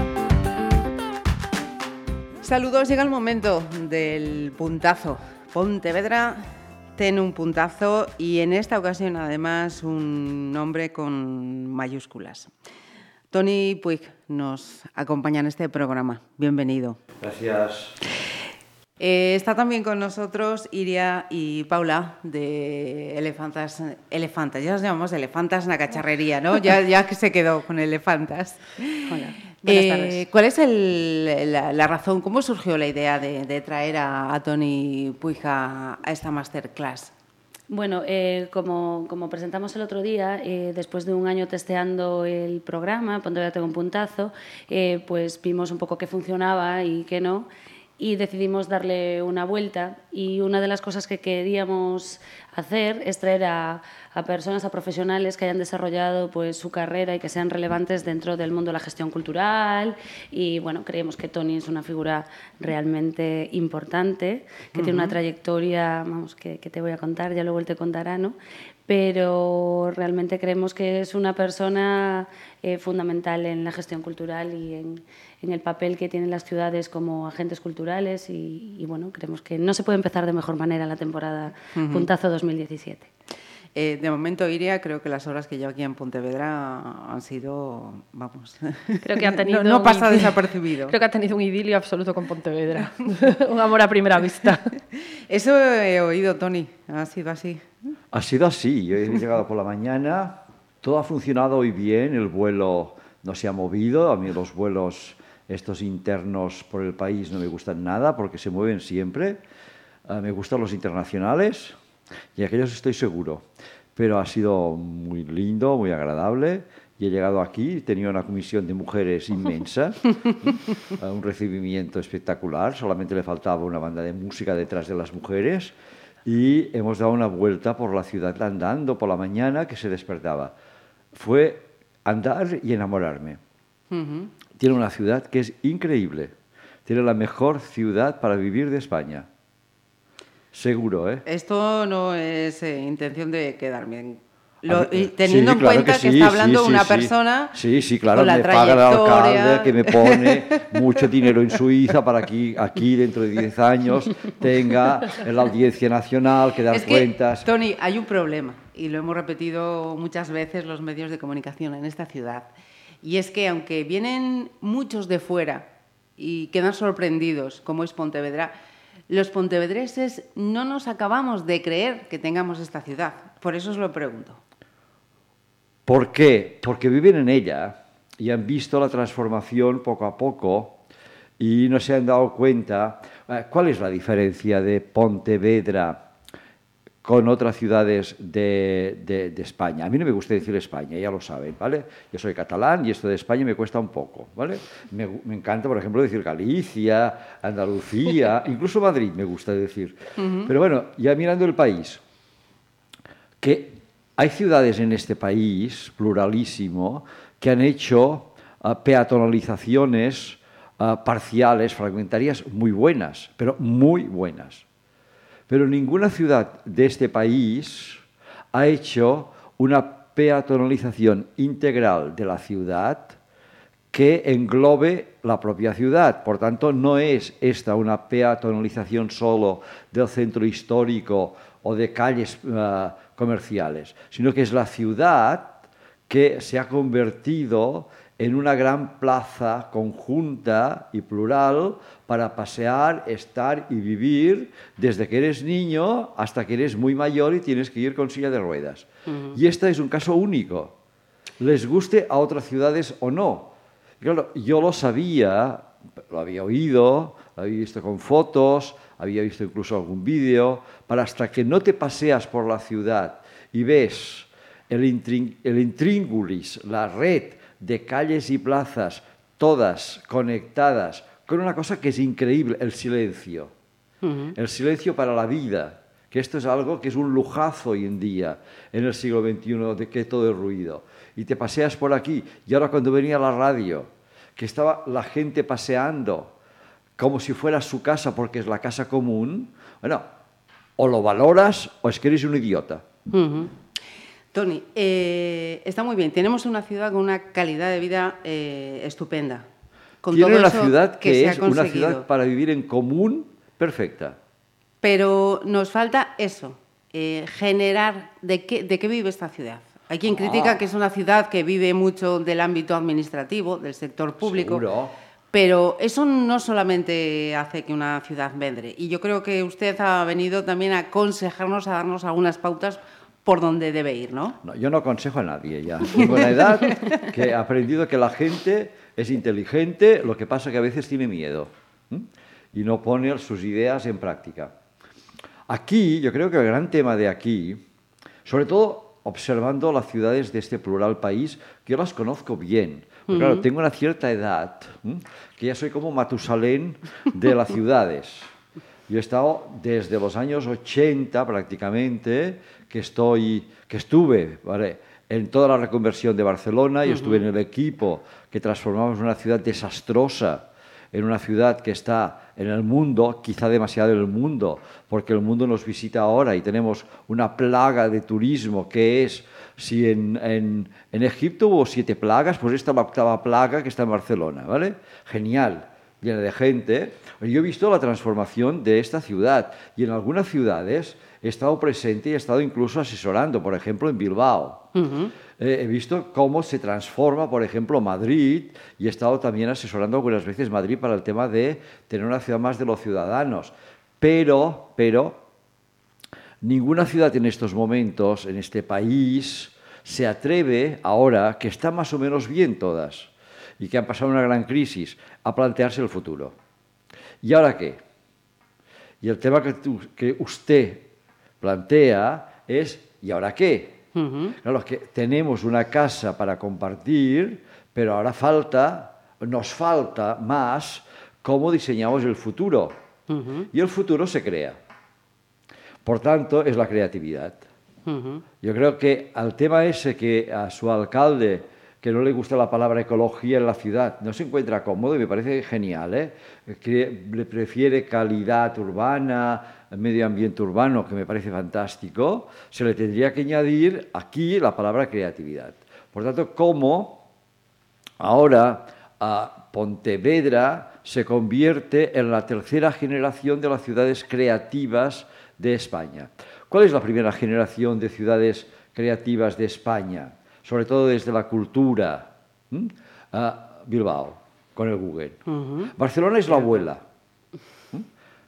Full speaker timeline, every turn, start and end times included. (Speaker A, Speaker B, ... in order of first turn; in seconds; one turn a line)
Speaker A: 2.4-12.5
Speaker A: 13.3-17.0
Speaker B: 17.2-18.0
Speaker A: 19.0-37.1
Speaker C: 29.1-30.2
Speaker C: 37.7-47.5
Speaker C: 48.0-68.3
Speaker A: 64.8-65.2
Speaker C: 68.9-83.1
Speaker A: 81.8-82.1
Speaker A: 83.7-90.9
Speaker D: 89.0-94.8
Speaker A: 95.3-97.7
Speaker B: 98.1-109.4
Speaker B: 110.1-111.8
Speaker B: 112.3-113.4
Speaker B: 114.0-125.7
Speaker B: 126.2-130.5
Speaker B: 131.1-133.4
Speaker A: 133.9-134.3
Speaker B: 134.6-136.3
Speaker B: 136.8-139.3
Speaker B: 140.5-141.2
Speaker A: 141.2-147.6
Speaker B: 144.7-157.5
Speaker A: 148.1-150.4
Speaker A: 156.7-162.5
Speaker A: 163.0-168.5
Speaker A: 169.1-174.4
Speaker B: 175.8-180.8
Speaker B: 181.4-186.0
Speaker B: 187.0-202.0
Speaker A: 200.2-200.5
Speaker B: 203.4-214.6
Speaker B: 215.5-218.0
Speaker B: 218.5-223.2
Speaker B: 223.9-250.7
Speaker A: 249.1-249.3
Speaker B: 251.4-273.5
Speaker A: 274.0-274.3
Speaker B: 274.3-286.3
Speaker B: 287.0-290.1
Speaker B: 290.8-292.8
Speaker A: 293.1-293.6
Speaker A: 294.3-299.4
Speaker A: 300.0-302.0
Speaker B: 300.1-304.2
Speaker A: 304.8-314.6
Speaker B: 310.1-310.6
Speaker B: 314.2-314.9
Speaker A: 315.3-324.4
Speaker B: 324.4-334.5
Speaker A: 325.9-326.9
Speaker B: 335.5-337.6
Speaker B: 338.2-348.3
Speaker A: 343.1-343.4
Speaker B: 348.9-384.7
Speaker A: 356.9-357.2
Speaker A: 384.7-385.1
Speaker B: 385.4-395.2
Speaker B: 396.4-406.3
Speaker B: 407.2-407.8
Speaker B: 409.0-410.9
Speaker B: 411.4-413.8
Speaker A: 413.9-414.4
Speaker B: 414.4-422.8
Speaker A: 423.1-423.5
Speaker B: 423.5-424.6
Speaker B: 425.8-427.4
Speaker A: 427.9-428.2
Speaker B: 428.4-447.0
Speaker B: 448.0-465.2
Speaker A: 465.3-465.7
Speaker B: 465.7-466.8